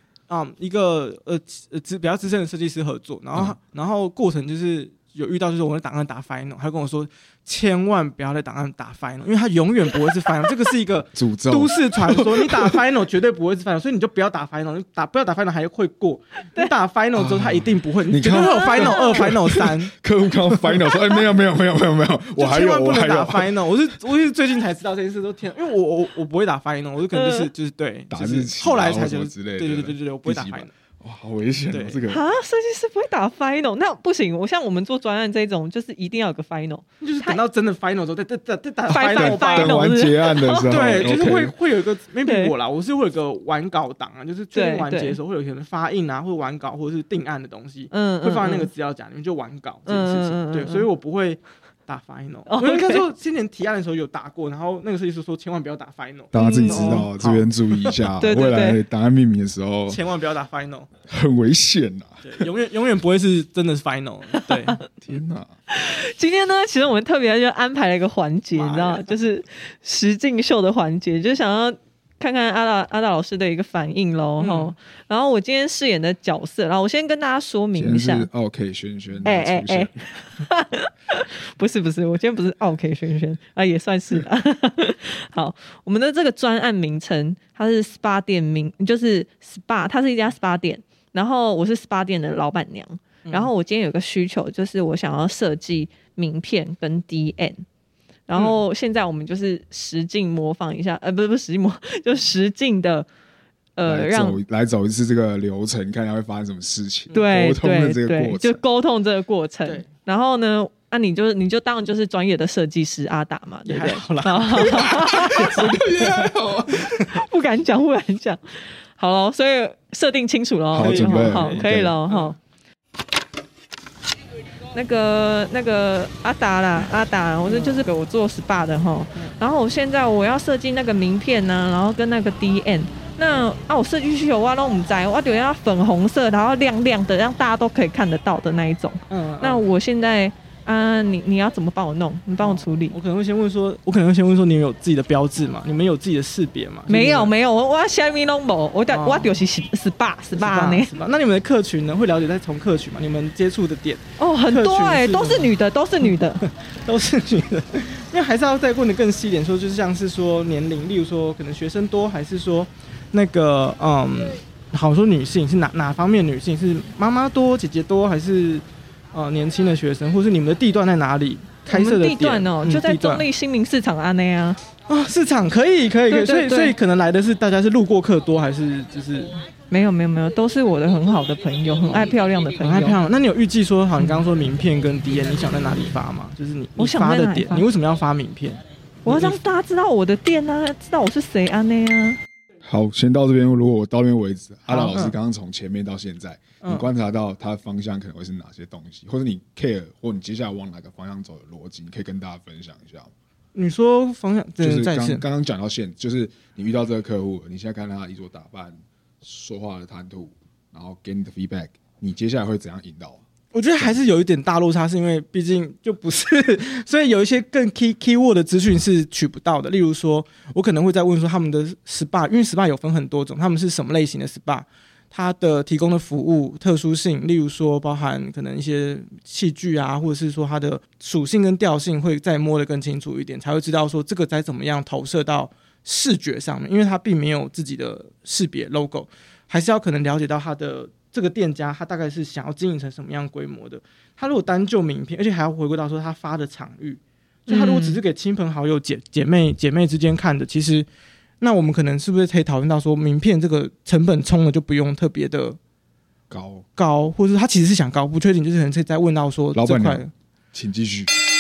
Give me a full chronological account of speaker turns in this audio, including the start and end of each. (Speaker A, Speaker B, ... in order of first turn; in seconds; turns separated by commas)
Speaker A: 0.3-19.9, Speaker B: 11.1-12.8, Speaker B: 17.1-23.6, Speaker C: 18.3-19.3, Speaker A: 22.4-30.7, Speaker C: 27.1-27.5, Speaker B: 28.1-32.2, Speaker A: 31.7-32.0, Speaker C: 32.1-37.4, Speaker A: 37.0-39.9, Speaker C: 38.9-41.1, Speaker B: 38.9-41.5, Speaker A: 40.7-58.1, Speaker C: 42.3-42.5, Speaker C: 44.5-45.2, Speaker C: 47.9-48.7, Speaker C: 49.9-50.9, Speaker C: 52.5-53.0, Speaker B: 56.3-60.0, Speaker C: 56.4-57.0, Speaker C: 58.2-58.8, Speaker A: 59.9-60.9, Speaker B: 61.1-62.5, Speaker A: 62.2-64.9, Speaker C: 64.4-64.7, Speaker B: 65.0-65.5, Speaker C: 65.7-78.3, Speaker A: 68.5-69.1, Speaker A: 74.4-74.7, Speaker B: 77.7-80.1, Speaker C: 79.2-97.6, Speaker A: 93.2-93.5, Speaker C: 98.3-103.1, Speaker A: 98.3-98.6, Speaker C: 103.8-104.4, Speaker B: 103.8-108.6, Speaker C: 107.1-115.9, Speaker A: 113.7-116.3, Speaker B: 114.8-117.1, Speaker C: 117.1-122.4, Speaker B: 120.7-122.0, Speaker A: 120.8-122.3, Speaker C: 124.7-143.0, Speaker A: 127.5-127.9, Speaker A: 139.1-139.6, Speaker A: 142.4-147.3, Speaker C: 146.9-150.9, Speaker A: 148.9-149.4, Speaker A: 150.4-173.3, Speaker C: 154.2-156.4, Speaker C: 171.7-174.6, Speaker A: 174.9-179.4, Speaker C: 176.1-176.8, Speaker C: 179.7-183.0, Speaker A: 182.6-189.4, Speaker C: 186.8-187.6, Speaker C: 189.1-192.2, Speaker B: 192.6-203.1, Speaker A: 194.7-195.2, Speaker A: 196.6-196.9, Speaker A: 203.5-205.2, Speaker B: 204.6-213.2, Speaker A: 213.5-250.9, Speaker C: 247.5-248.0, Speaker A: 251.4-255.6, Speaker B: 256.3-256.6, Speaker A: 256.8-260.1, Speaker B: 259.5-261.1